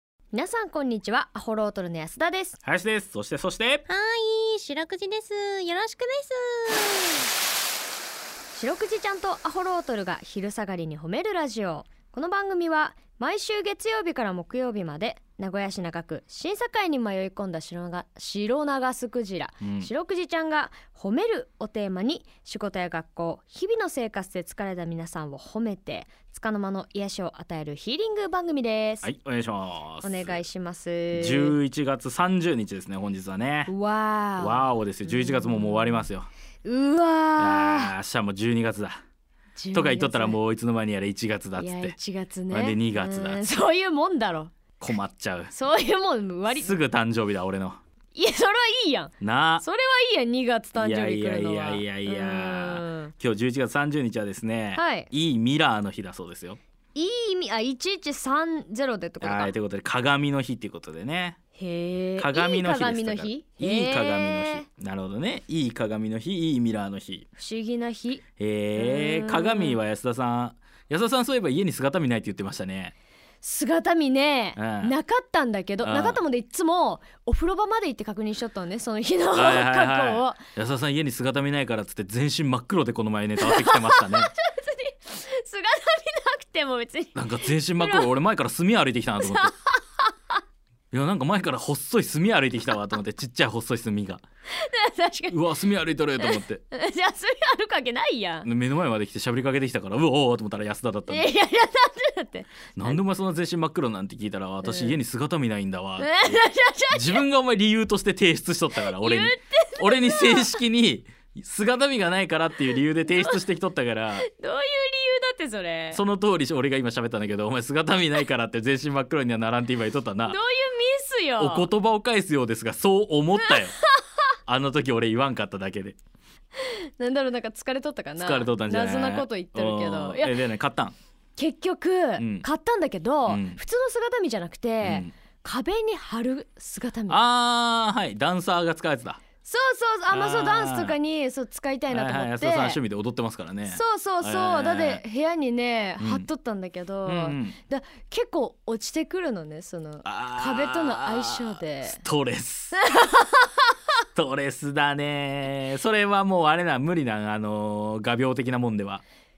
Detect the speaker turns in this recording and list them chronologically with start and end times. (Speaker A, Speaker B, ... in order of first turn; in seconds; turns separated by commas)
Speaker A: 0.3-2.6, Speaker B: 2.6-3.9, Speaker C: 3.9-7.3, Speaker A: 8.5-29.1, Speaker B: 19.6-19.9, Speaker B: 29.0-30.4, Speaker A: 30.0-31.6, Speaker B: 31.1-33.7, Speaker A: 33.7-36.1, Speaker B: 34.4-36.3, Speaker A: 36.6-37.9, Speaker B: 37.4-39.0, Speaker A: 39.6-40.4, Speaker B: 39.7-42.0, Speaker A: 41.6-44.5, Speaker B: 42.5-43.4, Speaker B: 44.8-45.5, Speaker A: 45.5-46.8, Speaker B: 46.5-47.8, Speaker A: 48.1-53.1, Speaker B: 49.2-49.6, Speaker B: 50.8-56.6, Speaker A: 54.8-55.1, Speaker A: 57.0-59.5, Speaker B: 59.2-61.4, Speaker A: 61.6-64.7, Speaker B: 62.2-67.3, Speaker A: 67.4-68.2, Speaker B: 68.4-72.9, Speaker A: 68.8-69.8, Speaker A: 73.4-80.4, Speaker B: 74.6-75.0, Speaker B: 75.8-76.2, Speaker B: 79.3-84.3, Speaker A: 83.4-87.2, Speaker B: 87.2-89.5, Speaker A: 87.8-88.1, Speaker A: 89.2-90.1, Speaker B: 90.9-94.2, Speaker A: 94.5-95.4, Speaker B: 95.3-96.6, Speaker A: 96.2-98.5, Speaker B: 98.5-101.3, Speaker A: 101.1-103.0, Speaker B: 102.8-114.3, Speaker A: 104.6-105.0, Speaker A: 106.0-107.2, Speaker A: 108.8-110.6, Speaker A: 113.1-113.4, Speaker A: 114.2-116.0, Speaker B: 115.9-120.4, Speaker A: 120.3-121.7, Speaker B: 121.4-123.8, Speaker A: 123.4-124.0, Speaker B: 124.5-126.0, Speaker A: 126.6-130.4, Speaker B: 128.2-130.9, Speaker A: 131.4-137.2, Speaker B: 132.2-132.5, Speaker B: 133.3-133.6, Speaker B: 134.8-135.1, Speaker B: 137.1-139.2, Speaker A: 139.4-142.8, Speaker B: 140.1-141.0, Speaker B: 141.9-145.0, Speaker A: 143.7-152.0, Speaker B: 146.0-146.3, Speaker B: 147.1-147.6, Speaker B: 150.1-152.8, Speaker A: 152.7-153.7, Speaker B: 154.2-159.0